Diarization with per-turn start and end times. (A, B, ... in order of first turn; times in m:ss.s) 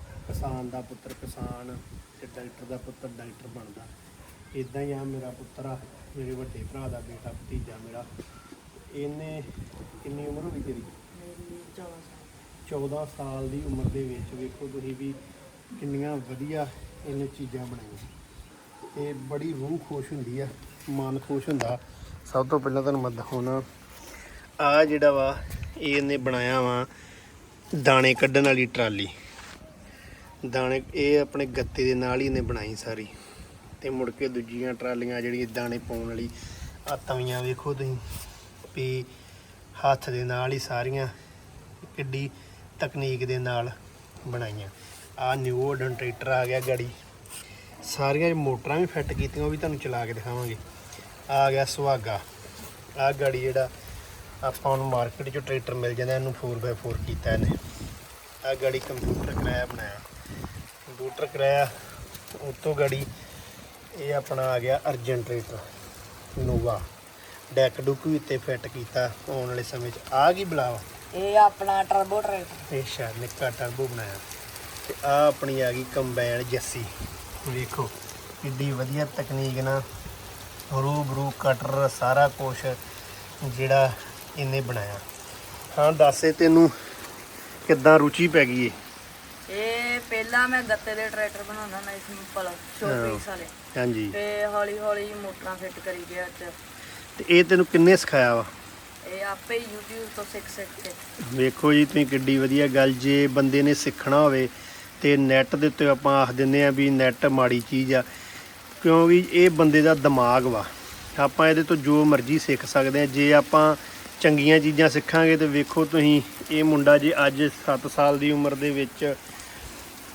0:00.3-0:03.9 A
0:04.5-0:08.1 A
0:08.9-0:09.5 A
0:10.0-0:11.0 A
0:11.1-0:12.3 B
0:12.7-0:15.2 A
0:15.7-0:18.1 A
0:19.0-0:23.6 A
0:24.6-0:26.9 A
0:27.7-0:29.1 A
0:30.4-0:33.1 A
0:33.8-0:36.3 A
0:36.9-0:38.0 A
0:38.7-0:39.1 A
0:39.8-0:41.1 A
0:41.8-0:43.7 A
0:44.2-0:47.0 A
0:47.8-0:50.6 A
0:51.3-0:52.2 A
0:53.0-0:53.7 A
0:54.4-0:57.5 A
0:58.4-1:00.0 A
1:00.9-1:01.7 A
1:02.4-1:03.1 A
1:04.0-1:05.6 A
1:06.4-1:06.9 A
1:07.5-1:10.8 A
1:11.1-1:12.7 B
1:12.7-1:14.2 A
1:14.8-1:16.9 A
1:17.4-1:19.8 A
1:20.7-1:22.8 A
1:23.4-1:25.0 A
1:25.7-1:26.7 A
1:27.7-1:28.8 A
1:29.5-1:33.5 B
1:32.8-1:33.2 A
1:33.7-1:34.2 A
1:34.1-1:36.5 B
1:37.2-1:38.5 A
1:39.0-1:41.0 B
1:41.2-1:48.1 A
1:48.8-1:59.2 A